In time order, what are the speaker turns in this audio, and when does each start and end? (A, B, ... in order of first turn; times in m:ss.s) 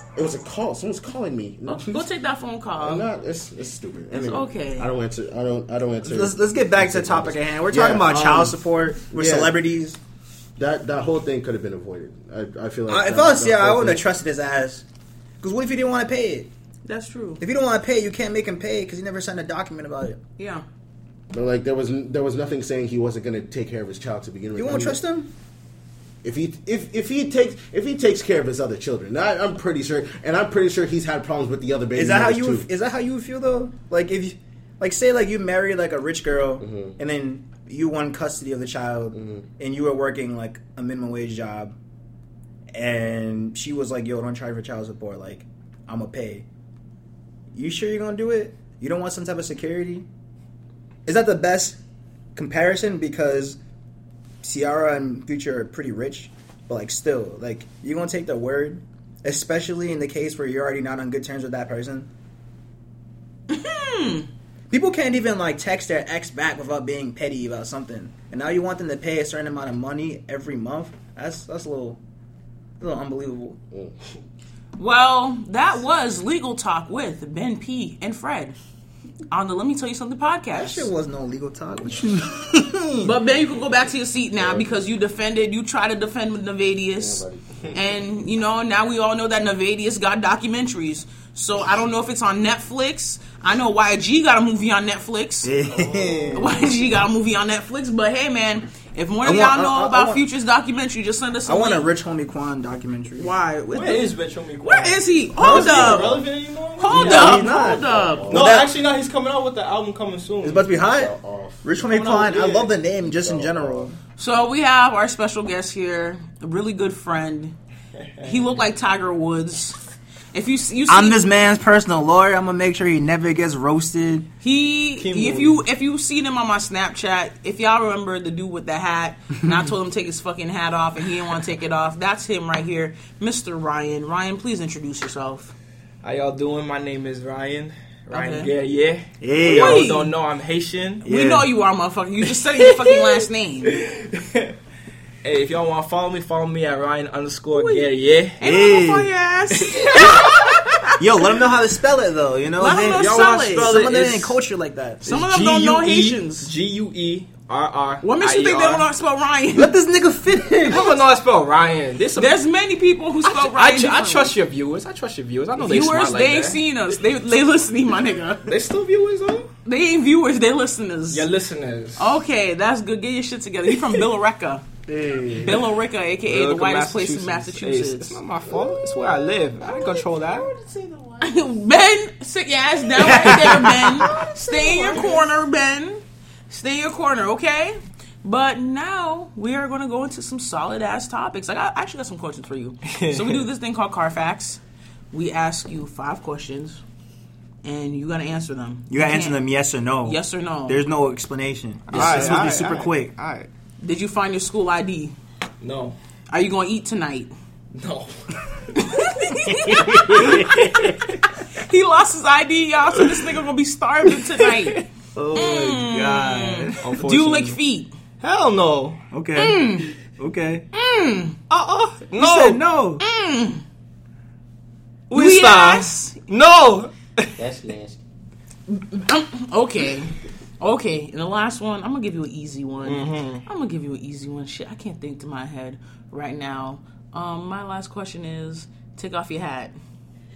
0:00.2-0:02.0 A
0:01.7-0:03.0 B
0:02.8-0:09.6 A
0:04.1-0:04.9 B
0:06.0-0:10.0 C
0:10.6-0:14.0 A
0:12.9-0:14.8 C
0:15.4-0:16.5 C
0:16.8-0:17.4 B
0:17.4-0:20.2 C
0:20.4-0:20.6 B
0:21.3-0:25.0 A
0:24.5-0:25.3 C
0:26.2-0:32.7 A
0:31.9-0:41.7 C
0:36.6-0:36.9 A
0:39.1-0:39.5 A
0:42.7-0:46.4 C
0:47.5-0:50.0 C
0:51.0-0:51.8 C
0:52.3-0:53.6 C
0:54.4-1:02.1 C
1:03.5-1:04.3 B
1:04.7-1:12.0 C
1:12.8-1:13.6 C
1:14.8-1:18.6 B
1:19.3-1:20.9 B
1:20.5-1:23.1 C
1:23.0-1:35.5 B
1:24.4-1:24.8 A
1:27.0-1:27.8 A
1:35.4-1:36.6 C
1:35.7-1:36.3 A
1:36.3-1:41.9 B
1:39.2-1:40.2 C
1:41.4-1:43.3 C
1:43.2-1:44.1 B
1:43.7-1:47.5 D
1:44.6-1:46.2 B
1:45.4-1:45.9 C
1:45.4-1:46.1 A
1:46.8-1:48.5 B
1:46.9-1:48.7 C
1:47.3-1:48.5 A
1:48.3-1:50.7 D
1:50.4-1:54.0 C
1:50.6-1:51.7 A
1:51.8-1:52.7 D
1:52.8-1:53.9 A
1:54.2-1:57.5 B
1:58.0-1:58.5 D
1:58.2-1:59.8 B
2:00.3-2:01.2 B
2:00.9-2:04.3 C
2:04.4-2:15.5 B
2:05.0-2:05.6 D
2:16.0-2:21.0 D
2:18.1-2:18.5 B
2:19.2-2:19.9 C
2:19.4-2:20.1 B
2:21.0-2:21.5 C
2:21.0-2:23.8 B
2:22.6-2:24.5 D
2:25.2-2:28.4 D
2:27.5-2:31.0 B
2:28.4-2:29.1 C
2:29.6-2:30.3 D
2:31.0-2:35.3 C
2:32.6-2:33.7 B
2:32.9-2:34.4 D
2:35.0-2:36.5 B
2:35.1-2:38.8 D
2:38.0-2:39.8 B
2:39.6-2:40.8 C
2:40.6-2:42.4 D
2:40.7-2:41.0 B
2:42.2-2:44.3 B
2:43.2-2:46.6 D
2:45.6-2:48.5 B
2:48.4-2:49.5 D
2:49.6-2:51.3 B
2:51.1-2:52.1 D
2:52.0-2:54.6 B
2:54.9-2:55.5 C
2:55.4-2:55.7 D
2:55.4-2:58.2 B
2:56.2-3:00.5 D
2:58.4-2:59.3 A
3:00.4-3:00.8 C
3:01.2-3:14.6 B
3:03.0-3:04.3 D
3:03.0-3:05.1 C
3:12.9-3:13.4 D
3:15.1-3:16.8 B
3:17.6-3:19.4 B
3:18.9-3:23.1 C
3:20.0-3:20.9 B
3:21.9-3:23.5 D
3:21.9-3:22.4 B
3:23.8-3:25.1 B
3:25.6-3:25.9 D
3:26.3-3:27.3 B
3:27.7-3:28.8 D
3:28.8-3:30.9 B
3:29.5-3:30.4 C
3:30.1-3:31.2 D
3:31.5-3:34.8 B
3:34.4-3:34.8 D
3:35.1-3:36.8 C
3:35.3-3:37.9 B
3:36.8-3:37.6 D
3:38.2-3:39.0 D
3:39.1-3:40.6 C
3:39.4-3:39.9 B
3:40.7-3:41.4 B
3:41.5-3:42.6 D
3:42.2-3:43.0 C
3:43.0-3:43.6 B
3:45.1-3:47.3 D
3:45.1-3:46.1 B
3:47.4-3:48.0 A
3:48.7-3:59.7 B
3:52.8-3:53.4 D